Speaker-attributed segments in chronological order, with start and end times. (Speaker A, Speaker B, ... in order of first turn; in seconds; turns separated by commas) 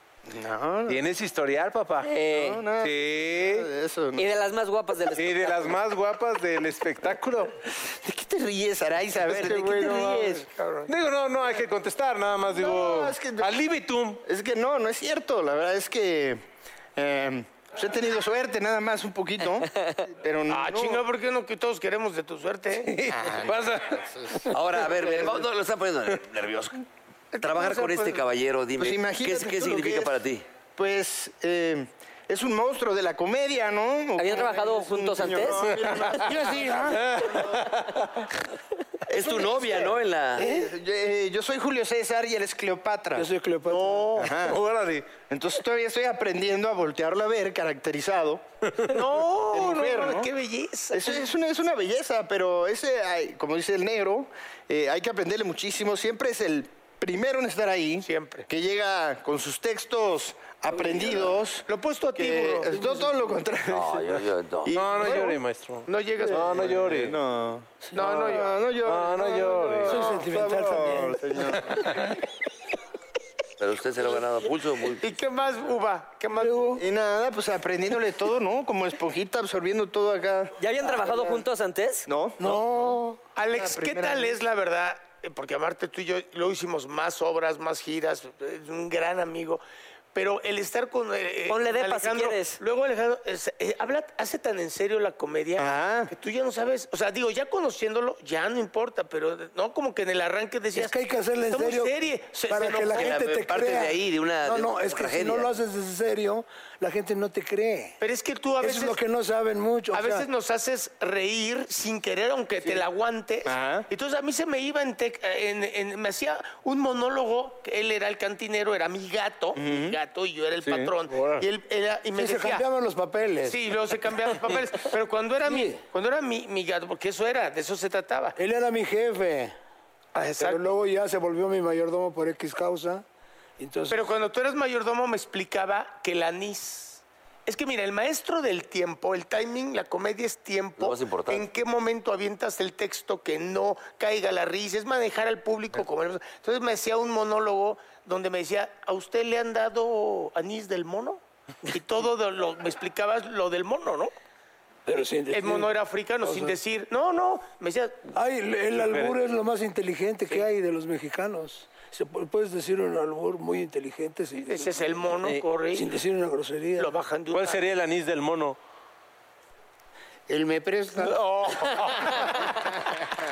Speaker A: 0.3-1.0, Speaker B: 0.9-2.1, Speaker C: 2.0-2.6, Speaker A: 2.3-4.3, Speaker B: 2.8-3.7, Speaker C: 4.2-5.8, Speaker B: 5.2-7.5, Speaker A: 7.8-10.5, Speaker D: 9.2-10.9, Speaker B: 10.9-14.2, Speaker A: 12.4-13.5, Speaker A: 14.2-16.4, Speaker A: 16.9-21.0, Speaker D: 20.5-23.1, Speaker B: 22.9-24.4, Speaker A: 23.1-25.4, Speaker E: 24.5-26.8, Speaker E: 27.4-30.4, Speaker D: 27.6-28.1, Speaker A: 28.8-37.7, Speaker C: 34.2-35.6, Speaker B: 35.7-38.1, Speaker F: 36.2-37.0, Speaker E: 39.1-40.5, Speaker A: 39.1-43.3, Speaker F: 40.4-40.7, Speaker F: 43.1-44.2, Speaker D: 43.7-44.3, Speaker A: 44.1-44.6, Speaker B: 44.3-45.1, Speaker A: 45.3-48.4, Speaker D: 48.8-51.2, Speaker A: 49.5-50.3, Speaker A: 50.9-65.4, Speaker D: 58.0-58.5, Speaker D: 61.7-62.7, Speaker F: 62.6-63.3, Speaker E: 63.6-64.8, Speaker B: 64.7-67.2, Speaker D: 65.9-66.8, Speaker A: 66.3-72.1, Speaker D: 67.9-68.6, Speaker B: 68.8-70.0, Speaker F: 69.8-71.5, Speaker D: 69.9-70.2, Speaker E: 73.6-75.1, Speaker D: 75.0-76.8, Speaker F: 76.4-76.8, Speaker A: 76.7-81.4, Speaker C: 80.6-82.1, Speaker A: 82.1-82.5, Speaker F: 82.4-83.2, Speaker D: 83.3-89.6, Speaker A: 83.5-84.3, Speaker D: 90.1-100.9, Speaker C: 91.5-92.6, Speaker A: 95.6-96.1, Speaker F: 100.7-108.0, Speaker D: 101.5-103.1, Speaker E: 102.9-105.5, Speaker D: 108.0-109.0, Speaker F: 108.6-110.3, Speaker D: 109.9-122.6, Speaker A: 113.5-113.9, Speaker A: 119.5-120.0, Speaker B: 120.6-121.5, Speaker F: 122.1-123.6, Speaker D: 123.5-128.3, Speaker F: 125.4-125.8, Speaker F: 128.4-129.6, Speaker D: 130.1-130.6, Speaker F: 130.4-133.0, Speaker F: 133.6-134.1, Speaker D: 133.9-154.1, Speaker E: 140.8-141.5, Speaker F: 154.8-156.6, Speaker D: 155.3-158.1, Speaker F: 158.1-164.8, Speaker B: 158.8-159.2, Speaker D: 164.4-165.9, Speaker F: 165.7-166.9, Speaker D: 166.8-167.6, Speaker B: 167.3-168.6, Speaker F: 170.3-172.3, Speaker B: 171.0-172.3